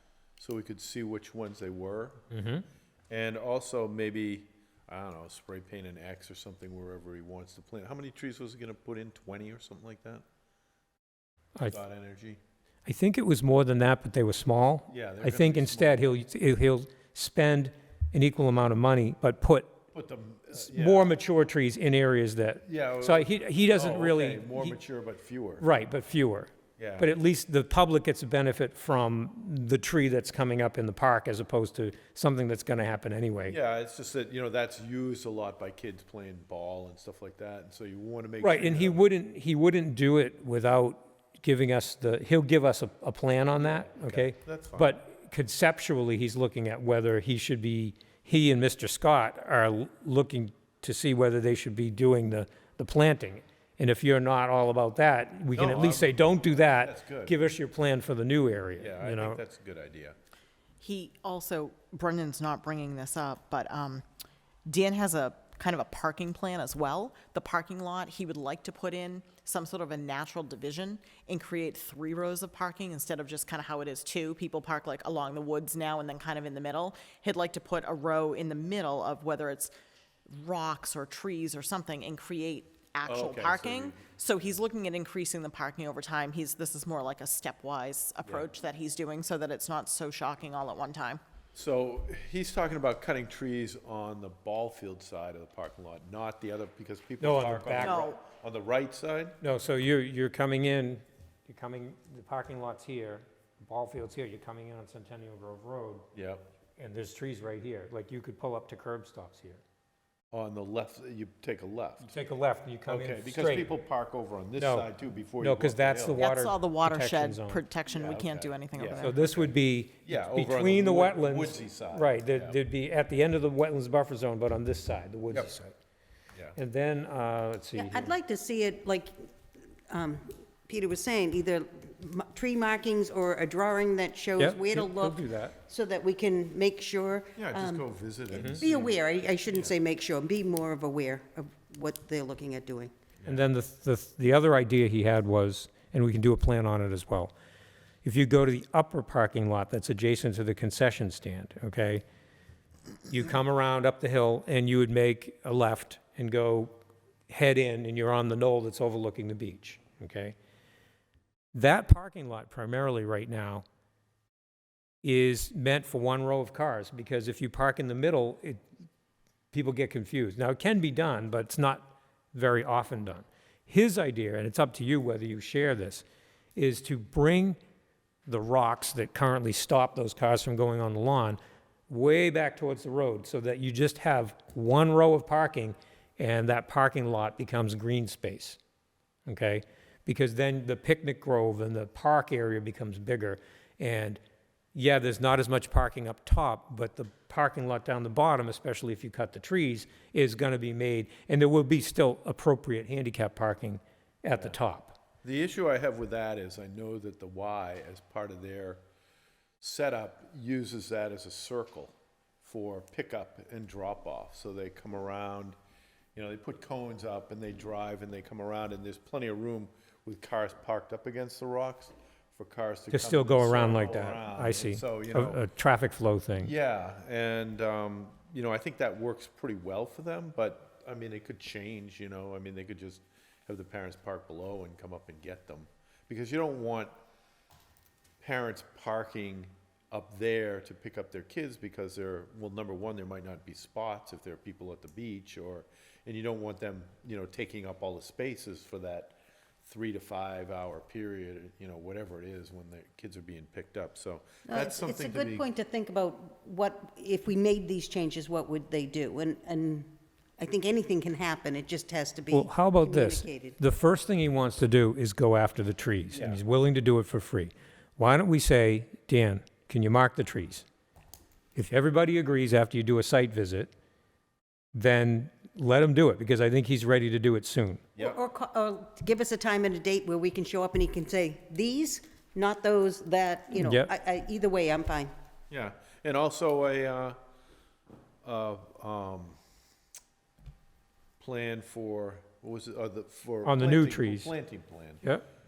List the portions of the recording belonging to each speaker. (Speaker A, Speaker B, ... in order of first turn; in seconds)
Speaker A: 0.4-2.2, 3.1-10.2, 11.6-12.4, 14.9-16.1, 19.9-21.1, 22.6-25.7, 26.8-27.1, 33.4-39.0, 43.6-45.0, 55.5-57.4, 58.8-60.1, 83.0-84.2, 91.5-99.4, 106.1-106.4, 110.3-112.2, 112.8-116.2, 117.9-122.6, 137.3-139.0, 205.2-208.8, 209.6-215.6, 216.1-225.4, 226.4-236.9, 238.2-255.5, 266.1-266.4, 285.5-287.2, 288.2-289.4, 291.2-295.1
Speaker B: 2.3-2.6, 12.8-19.8, 20.6-24.8, 25.6-33.6, 38.4-59.4, 97.2-98.1, 99.4-106.1, 106.8-109.6, 112.0-113.7, 114.6-114.9, 115.4-117.6, 119.0-125.8, 126.5-128.1, 134.4-135.5, 143.3-147.3, 148.0-152.0, 153.1-156.7, 157.3-160.3, 161.5-163.6, 165.0-168.6, 169.5-176.0, 176.6-177.6, 178.2-188.6, 189.2-194.2, 194.7-205.0, 222.9-226.5, 262.3-270.6, 271.5-273.7, 274.7-277.8, 283.5-283.9, 293.4-294.3
Speaker C: 60.8-64.0, 64.7-79.7, 80.3-91.2, 97.8-98.2, 116.2-119.1
Speaker D: 127.8-129.3, 129.9-142.9, 254.4-263.6, 278.0-285.1